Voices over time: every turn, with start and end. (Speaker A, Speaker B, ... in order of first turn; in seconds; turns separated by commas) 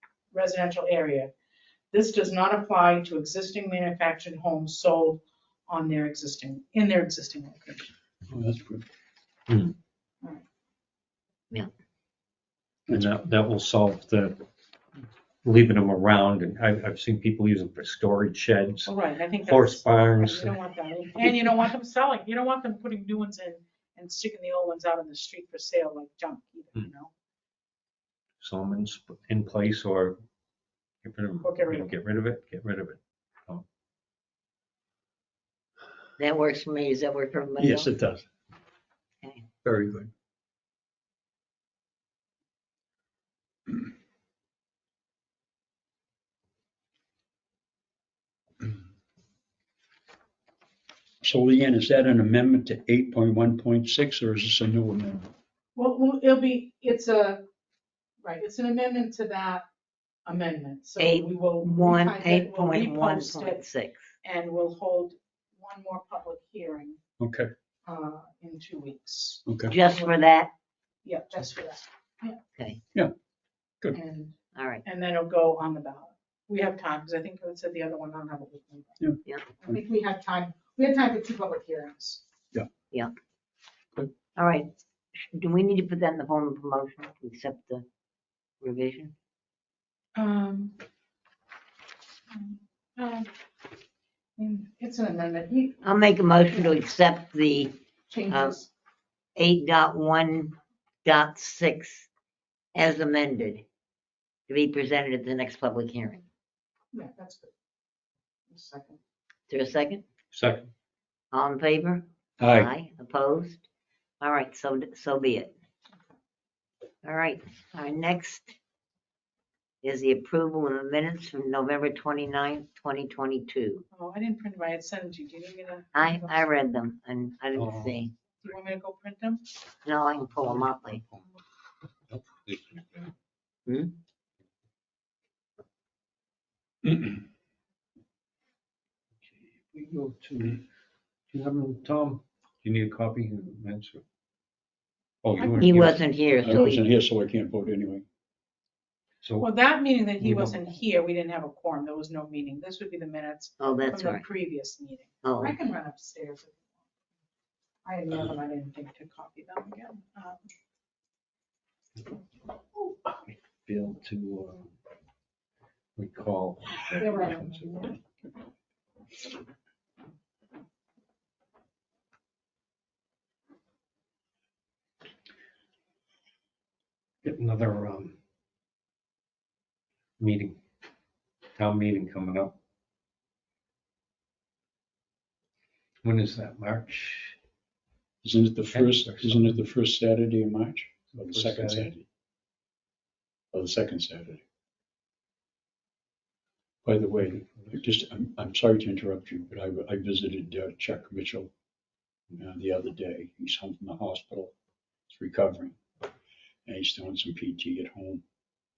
Speaker A: 0.3-1.3, Speaker A: 1.9-7.9, Speaker B: 8.3-8.8, Speaker C: 9.5-9.7, Speaker C: 12.9-14.4, Speaker C: 15.4-20.5, Speaker A: 18.9-27.1, Speaker C: 28.4-30.2, Speaker C: 31.0-33.6, Speaker A: 31.4-31.9, Speaker D: 36.2-37.9, Speaker B: 37.6-38.3, Speaker B: 39.6-40.1, Speaker B: 51.2-55.3, Speaker A: 55.8-57.4, Speaker A: 58.2-59.6, Speaker A: 60.2-63.6, Speaker D: 61.0-64.0, Speaker A: 64.2-67.0, Speaker B: 67.2-67.5, Speaker A: 67.8-70.3, Speaker B: 69.5-69.7, Speaker D: 69.7-70.5, Speaker A: 71.0-72.4, Speaker D: 72.5-72.8, Speaker A: 73.9-79.0, Speaker D: 74.5-74.8, Speaker A: 79.6-82.2, Speaker D: 84.2-87.8, Speaker D: 88.6-89.1, Speaker A: 90.2-90.8, Speaker A: 92.3-93.3, Speaker A: 94.4-95.8, Speaker D: 95.8-97.7, Speaker A: 98.1-98.7, Speaker D: 98.3-98.6, Speaker D: 99.3-100.5, Speaker D: 101.0-102.1, Speaker D: 102.7-103.6, Speaker D: 104.5-106.2, Speaker A: 106.9-107.5, Speaker A: 108.5-109.0, Speaker D: 109.5-110.0, Speaker C: 110.3-110.7, Speaker D: 111.3-113.6, Speaker B: 112.4-112.7, Speaker D: 114.2-115.5, Speaker D: 117.0-118.6, Speaker D: 119.8-123.8, Speaker A: 123.9-126.5, Speaker D: 125.9-128.1, Speaker C: 127.5-128.1, Speaker A: 128.4-129.4, Speaker D: 129.8-131.0, Speaker C: 130.2-131.2, Speaker C: 132.1-133.1, Speaker D: 133.7-133.9, Speaker B: 136.8-137.2, Speaker C: 139.3-140.6, Speaker C: 141.3-144.0, Speaker C: 145.2-146.0, Speaker A: 145.4-145.8, Speaker D: 145.5-146.8, Speaker B: 146.4-148.0, Speaker C: 149.2-149.5, Speaker A: 149.4-156.7, Speaker C: 150.2-150.8, Speaker D: 153.6-154.2, Speaker D: 155.2-155.6, Speaker A: 157.8-160.5, Speaker C: 163.1-164.7, Speaker C: 165.9-168.0, Speaker A: 166.9-168.0, Speaker C: 177.2-178.2, Speaker C: 180.2-180.6, Speaker C: 181.6-182.5, Speaker C: 186.0-187.4, Speaker B: 188.2-192.0, Speaker C: 188.7-189.6, Speaker C: 191.1-191.9, Speaker B: 193.5-194.4, Speaker B: 196.8-201.5, Speaker B: 202.3-204.5, Speaker B: 205.1-205.8, Speaker B: 206.7-208.2